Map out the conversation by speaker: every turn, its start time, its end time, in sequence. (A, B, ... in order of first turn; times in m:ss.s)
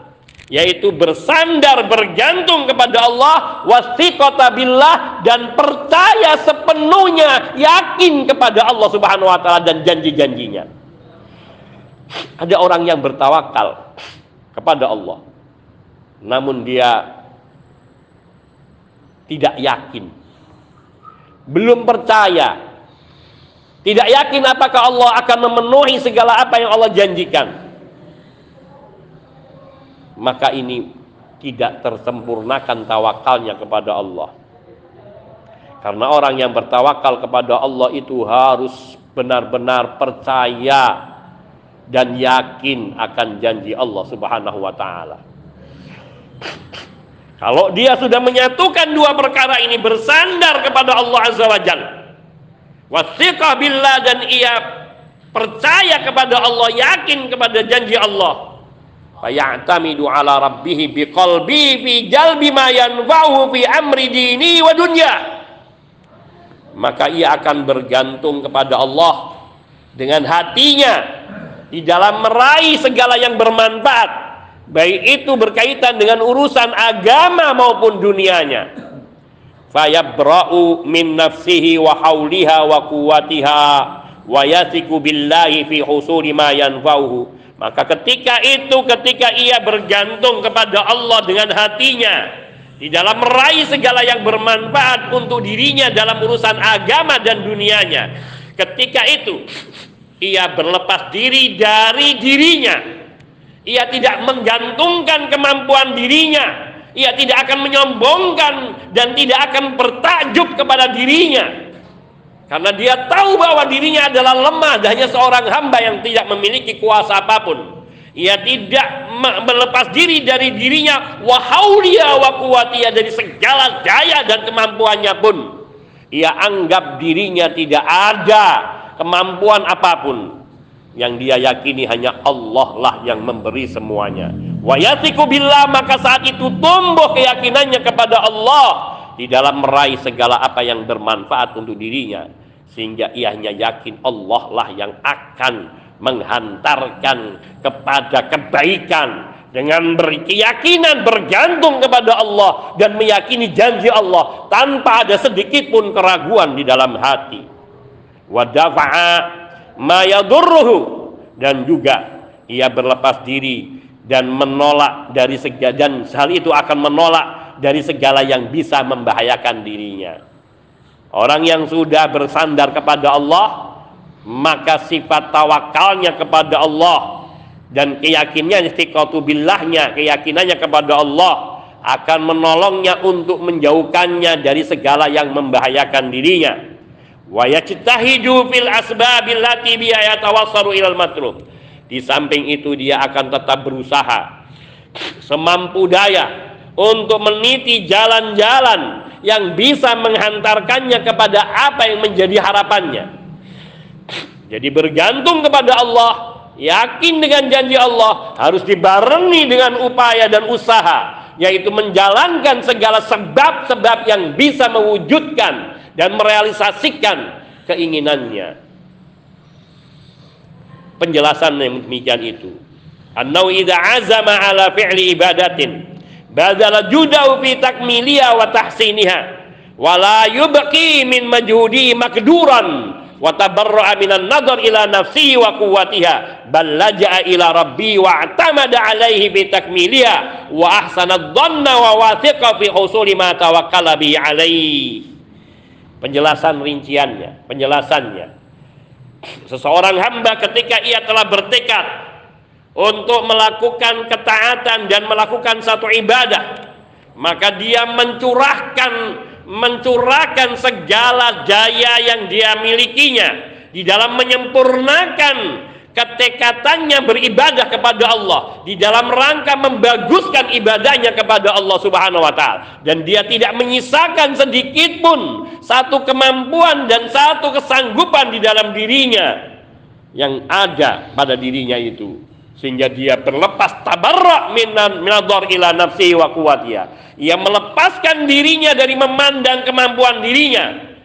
0:00.5-0:10.7 A
0:12.4-0:13.8 A
0:14.5-0:15.2 A
0:16.2-0:17.1 A
0:19.3-0:20.1 A
0:21.5-0:22.5 A
0:23.8-0:27.5 A
0:30.2-0:30.8 A
0:31.4-0:34.3 A
0:35.8-0:41.0 A
0:41.9-0:45.2 A
0:47.4-0:51.9 A
0:52.9-0:54.6 A
0:55.3-0:58.5 A
0:59.2-1:05.2 A
1:06.8-1:09.3 A
1:10.0-1:11.0 A
1:11.7-1:14.1 A
1:14.7-1:18.7 A
1:19.7-1:32.3 A
1:32.8-1:39.4 A
1:40.2-1:42.8 A
1:43.7-1:51.5 A
1:52.5-2:05.5 A
2:06.1-2:10.3 A
2:11.0-2:37.4 A
2:38.3-2:50.2 A
2:51.1-2:53.8 A
2:54.3-3:06.6 A
3:07.3-3:11.4 A
3:11.9-3:14.2 A
3:15.2-3:23.1 A
3:24.5-3:38.5 A
3:41.0-3:42.5 A
3:43.2-3:45.8 A
3:46.3-3:49.2 A
3:49.8-4:05.0 A
4:06.0-4:08.3 A
4:09.5-4:11.9 A
4:12.8-4:16.5 A
4:17.2-4:39.4 A
4:40.2-4:50.7 A